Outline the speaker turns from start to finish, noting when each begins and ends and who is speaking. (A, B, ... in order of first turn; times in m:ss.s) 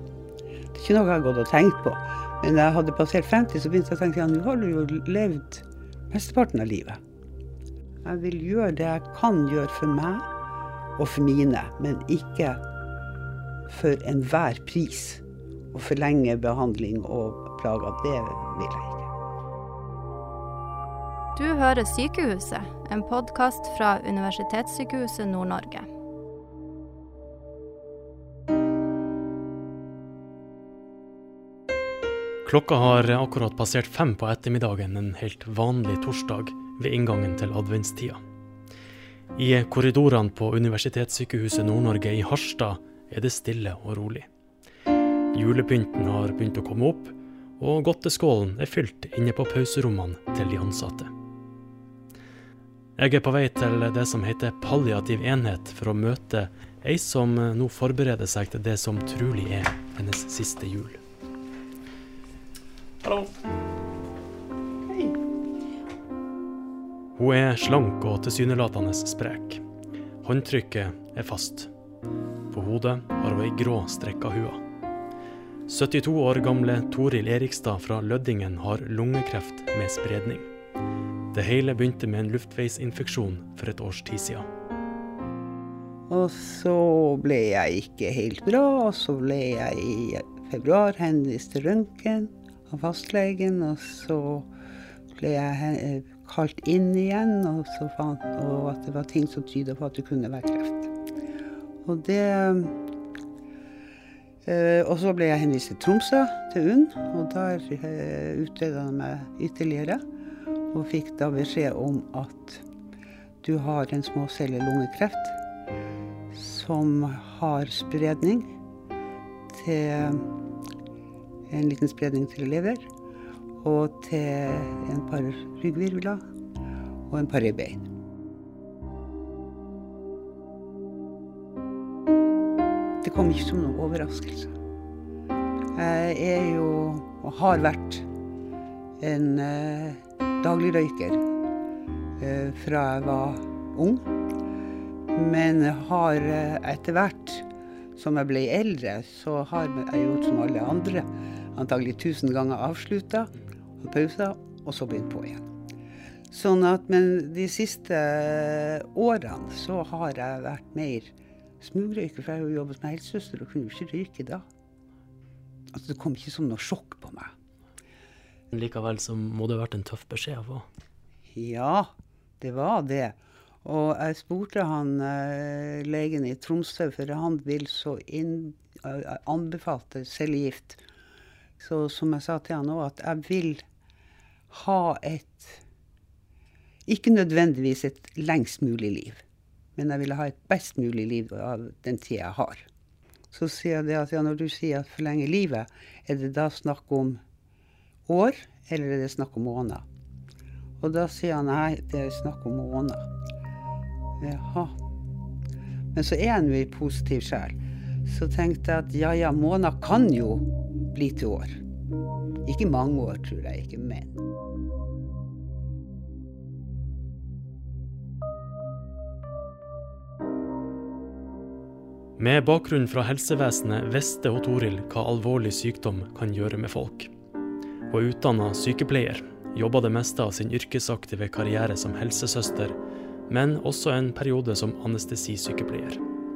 0:00.7-0:07.0 A
0:08.0-0:10.3 A
0:11.0-0:12.6 A
0:13.7-0:19.1 A
0:21.3-0:25.9 B
0:32.4-0:38.2 C
0:39.4-0:44.3 C
0:45.3-0:51.1 C
0:53.0-1:01.0 C
1:03.0-1:03.3 C
1:04.9-1:05.2 A
1:07.2-1:09.6 C
1:10.2-1:11.7 C
1:12.5-1:14.6 C
1:15.7-1:20.5 C
1:21.3-1:24.5 C
1:26.1-1:34.5 A
1:35.1-1:40.9 A
1:41.8-1:42.8 A
1:44.4-1:50.0 A
1:50.7-1:52.6 A
1:53.4-1:55.4 A
1:56.3-1:58.5 A
1:59.5-2:00.3 A
2:01.5-2:02.9 A
2:03.6-2:06.2 A
2:07.1-2:07.9 A
2:13.0-2:14.5 A
2:15.7-2:18.1 A
2:19.0-2:21.2 A
2:22.2-2:24.1 A
2:25.1-2:35.5 A
2:36.3-2:44.4 A
2:45.7-2:47.3 A
2:48.5-2:50.6 C
2:51.3-3:00.8 A
3:01.6-3:03.6 A
3:04.5-3:05.6 A
3:06.8-3:09.2 A
3:09.8-3:12.6 A
3:13.3-3:17.2 A
3:18.0-3:19.8 A
3:20.8-3:23.1 A
3:24.2-3:24.7 A
3:25.9-3:31.6 A
3:32.4-3:34.2 A
3:42.2-3:47.1 C
3:47.9-3:52.7 C
3:53.3-3:56.0 C